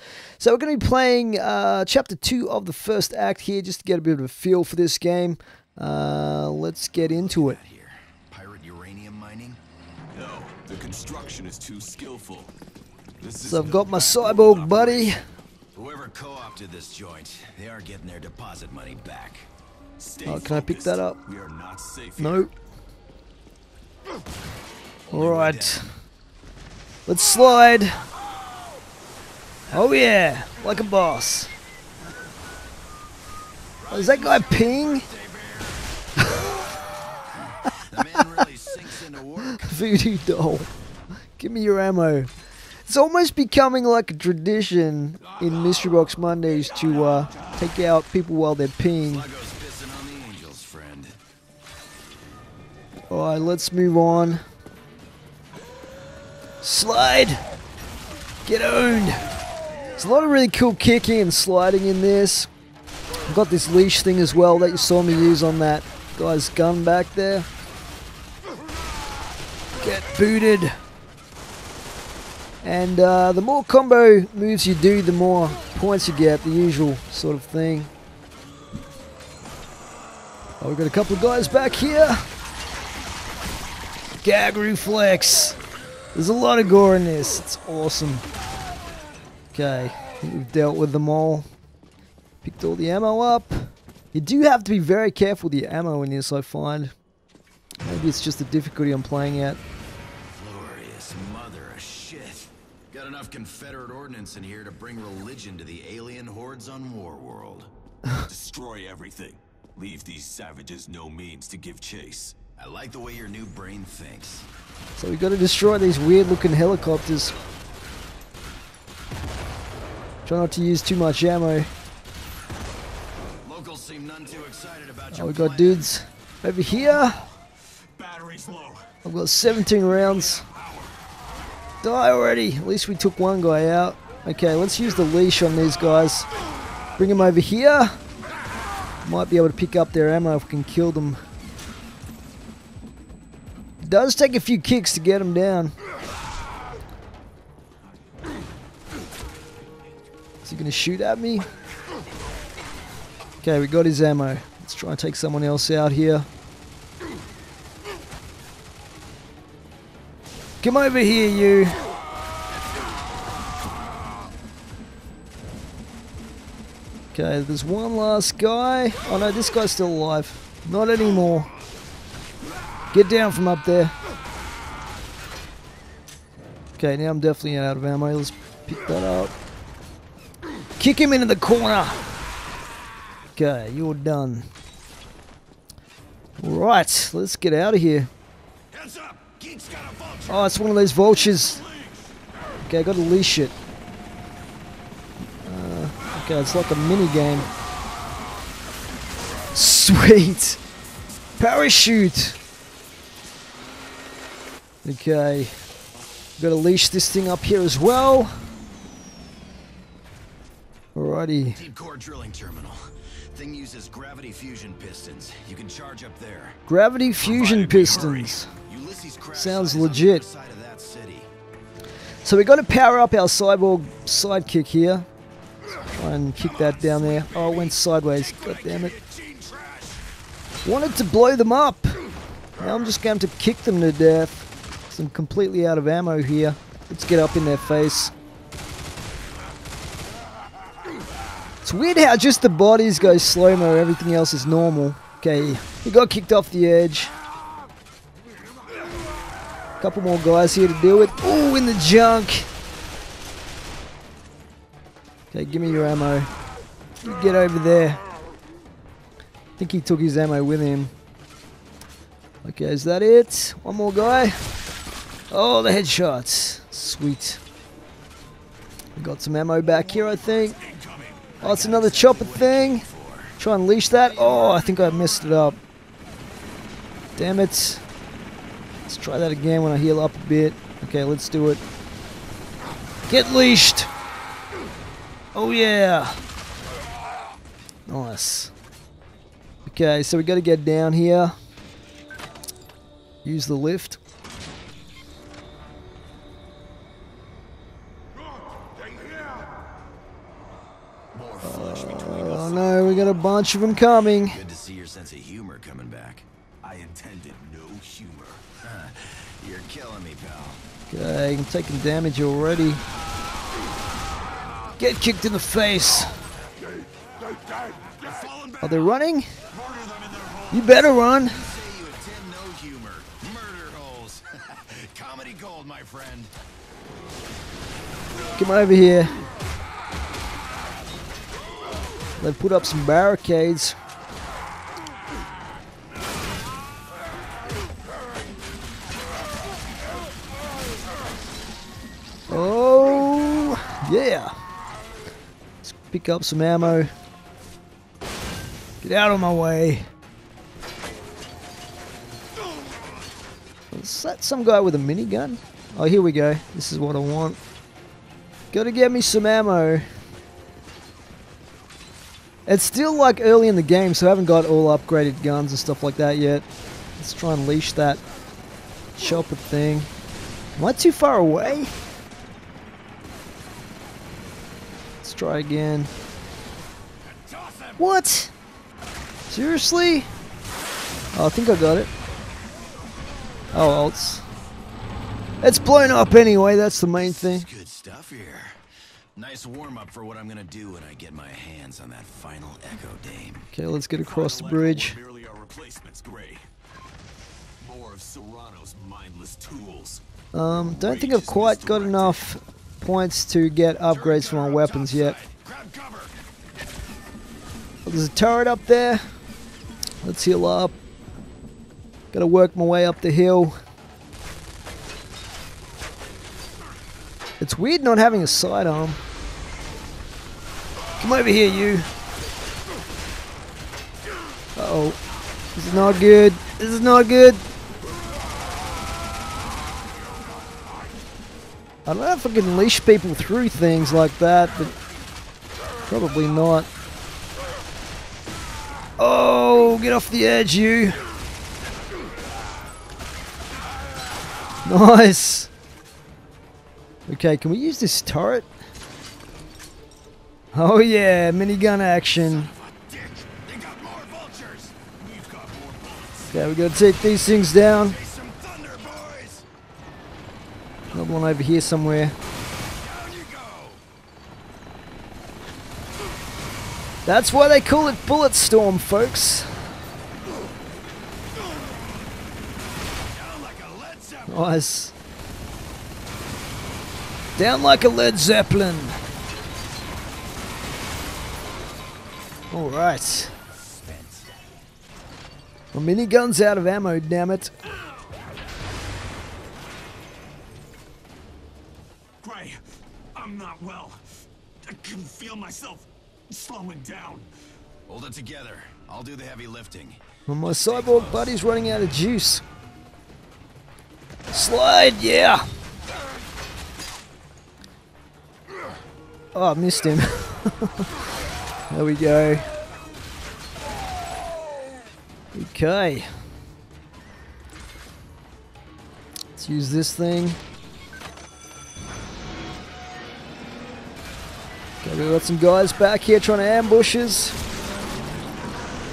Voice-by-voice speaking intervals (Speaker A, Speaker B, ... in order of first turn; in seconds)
Speaker A: 0.4-7.6, 13.4-15.2, 20.2-21.2, 22.2-22.5, 25.1-25.9, 27.1-27.9, 29.7-31.5, 33.9-35.1, 39.5-40.7, 41.4-42.3, 42.9-49.3, 53.1-54.4, 56.6-57.4, 58.5-59.2, 60.0-62.5, 63.3-67.5, 69.8-70.7, 72.6-77.9, 80.6-82.2, 84.2-85.6, 86.2-88.2, 89.5-91.5, 92.4-96.9, 97.8-99.6, 115.0-117.3, 120.2-121.7, 125.1-127.2, 129.0-130.4, 131.8-136.3, 137.0-138.0, 139.0-141.2, 143.8-145.8, 150.4-151.5, 153.4-156.3, 160.6-161.8, 167.1-171.5, 172.9-173.9, 176.8-179.3, 180.8-182.0, 183.3-184.4, 186.4-188.1, 190.3-191.6, 192.6-193.5, 195.4-197.5, 199.5-200.6, 201.4-202.4, 204.8-205.5, 206.4-208.3, 210.9-211.6, 216.7-218.5, 219.3-220.2, 222.2-225.1, 225.9-228.9, 230.6-232.0, 232.6-238.1, 241.7-247.1, 249.8-252.5, 255.3-256.3, 257.0-258.0, 259.6-260.9, 262.4-264.4, 265.3-267.4, 269.0-270.6, 271.4-272.9, 273.4-275.6, 277.2-277.8, 278.9-281.6, 283.1-283.9, 285.4-286.2, 287.9-288.5, 289.7-291.3, 293.2-294.0, 301.4-304.4, 310.9-312.8, 314.8-316.2, 318.6-319.3, 320.5-321.4, 328.4-329.1, 332.2-333.8, 342.3-344.3, 345.6-346.9, 348.8-349.9, 353.7-357.4, 358.5-359.9, 362.5-366.5, 367.0-368.0, 369.0-369.9, 370.6-371.7, 375.0-375.9, 377.8-378.3, 379.3-380.1, 381.1-381.9, 383.5-384.2, 385.4-387.5, 393.5-395.0, 400.3-405.2, 407.9-409.0, 410.0-410.8, 412.1-413.6, 417.4-419.0, 421.0-421.9, 424.6-425.0, 425.6-427.4, 431.9-434.7, 435.9-436.7, 439.0-441.0, 444.6-445.5, 447.1-448.5, 450.5-452.5, 456.3-458.0, 460.9-462.1, 467.1-469.6, 474.3-474.9, 477.4-479.0, 482.5-483.3, 485.7-487.5, 500.3-502.4, 504.3-505.4, 509.3-510.9, 511.7-512.5, 515.3-516.1, 519.3-520.4, 524.8-527.4
Speaker B: 7.0-9.6, 14.6-15.1, 15.7-19.5, 25.1-25.9, 33.8-35.9, 37.5-39.8, 49.0-51.2, 100.3-107.7, 112.5-114.5, 123.4-125.9, 188.7-190.6, 211.5-216.6, 218.6-221.3, 226.4-230.0, 270.6-273.4, 301.8-303.2, 304.2-306.2, 308.6-310.6, 321.0-326.3, 377.2-377.8, 386.9-388.6, 389.2-393.5, 400.6-402.3, 403.9-406.1, 452.1-454.9, 457.7-459.5, 462.8-463.8, 473.1-474.4, 483.6-484.3, 497.9-501.4
Speaker C: 10.1-12.5, 13.2-14.9, 20.0-22.4, 108.3-112.5, 127.9-128.9, 130.0-130.9, 217.2-218.4, 301.1-301.9, 306.6-308.6, 317.9-318.8, 319.5-320.8, 393.9-396.4, 397.6-400.0, 455.0-456.3, 492.2-492.6, 493.1-494.1, 494.6-497.3